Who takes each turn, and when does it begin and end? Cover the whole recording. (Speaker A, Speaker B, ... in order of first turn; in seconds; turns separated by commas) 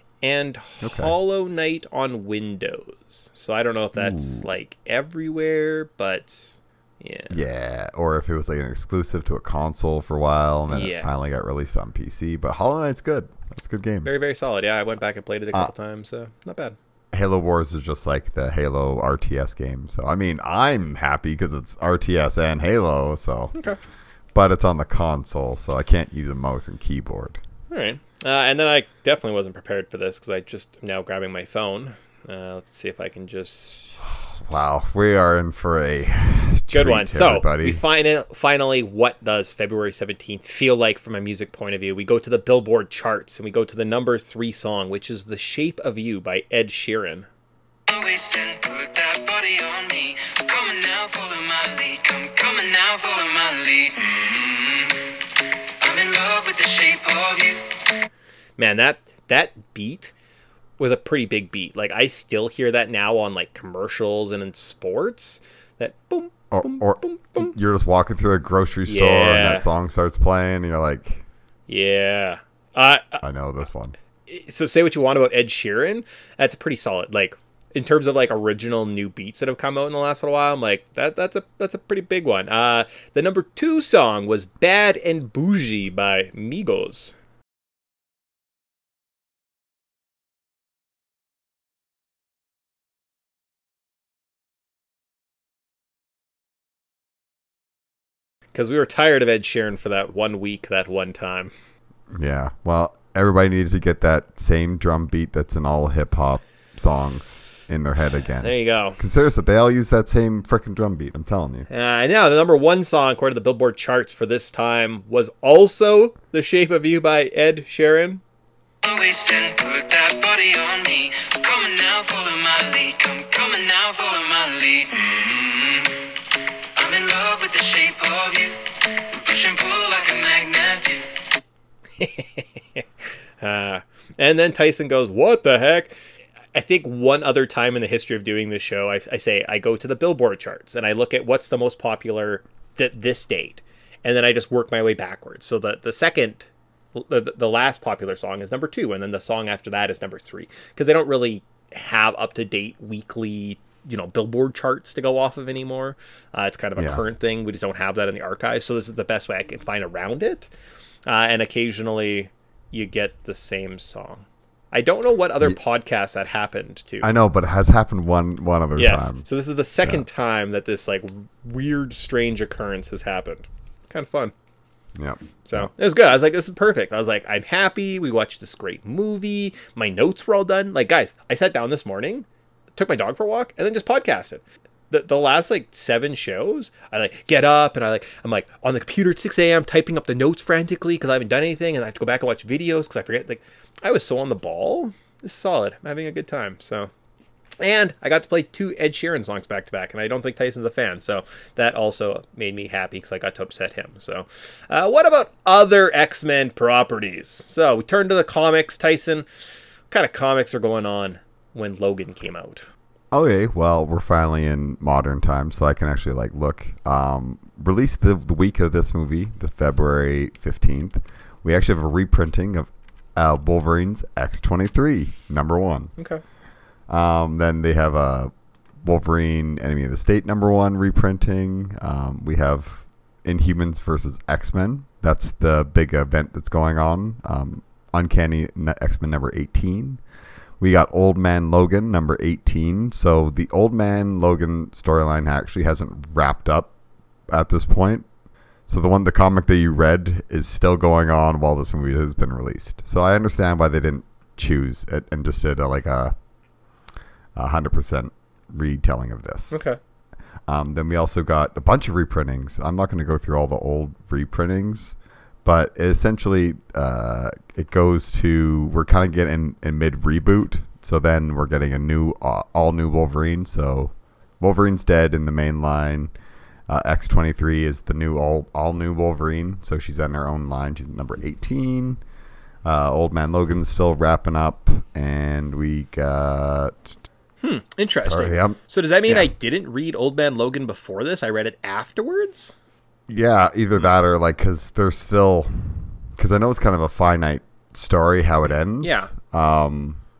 Speaker A: 0.2-7.4, Speaker B: 0.8-1.1, Speaker B: 4.0-4.5, Speaker B: 7.3-14.1, Speaker A: 10.7-11.1, Speaker A: 14.1-16.8, Speaker B: 17.1-23.5, Speaker A: 23.5-23.8, Speaker B: 24.3-27.4, Speaker A: 27.7-34.0, Speaker B: 34.2-37.8, Speaker A: 36.7-47.3, Speaker C: 47.9-55.2, Speaker C: 55.8-57.8, Speaker A: 58.6-60.1, Speaker A: 60.8-67.6, Speaker B: 66.5-71.2, Speaker A: 68.9-69.7, Speaker A: 71.7-73.2, Speaker B: 73.2-74.0, Speaker A: 74.3-87.2, Speaker A: 98.5-101.5, Speaker B: 102.1-111.7, Speaker A: 108.4-109.0, Speaker A: 111.7-118.2, Speaker C: 118.8-126.1, Speaker C: 126.8-131.1, Speaker A: 132.0-132.8, Speaker A: 133.4-136.0, Speaker A: 136.5-160.5, Speaker B: 156.8-157.0, Speaker A: 161.1-167.1, Speaker B: 167.0-169.2, Speaker A: 168.8-174.3, Speaker B: 175.0-175.7, Speaker A: 175.4-196.9, Speaker A: 197.6-209.3, Speaker A: 209.9-212.7, Speaker B: 213.1-225.9, Speaker A: 226.0-226.2, Speaker B: 226.9-228.3, Speaker B: 228.8-240.0, Speaker B: 240.6-246.7, Speaker B: 247.3-248.1, Speaker B: 248.7-256.1, Speaker B: 257.4-259.6, Speaker A: 259.5-259.8, Speaker B: 260.5-276.1, Speaker B: 276.7-282.0, Speaker B: 282.6-287.0, Speaker A: 287.4-292.6, Speaker B: 288.0-289.3, Speaker B: 293.1-300.0, Speaker A: 298.8-299.1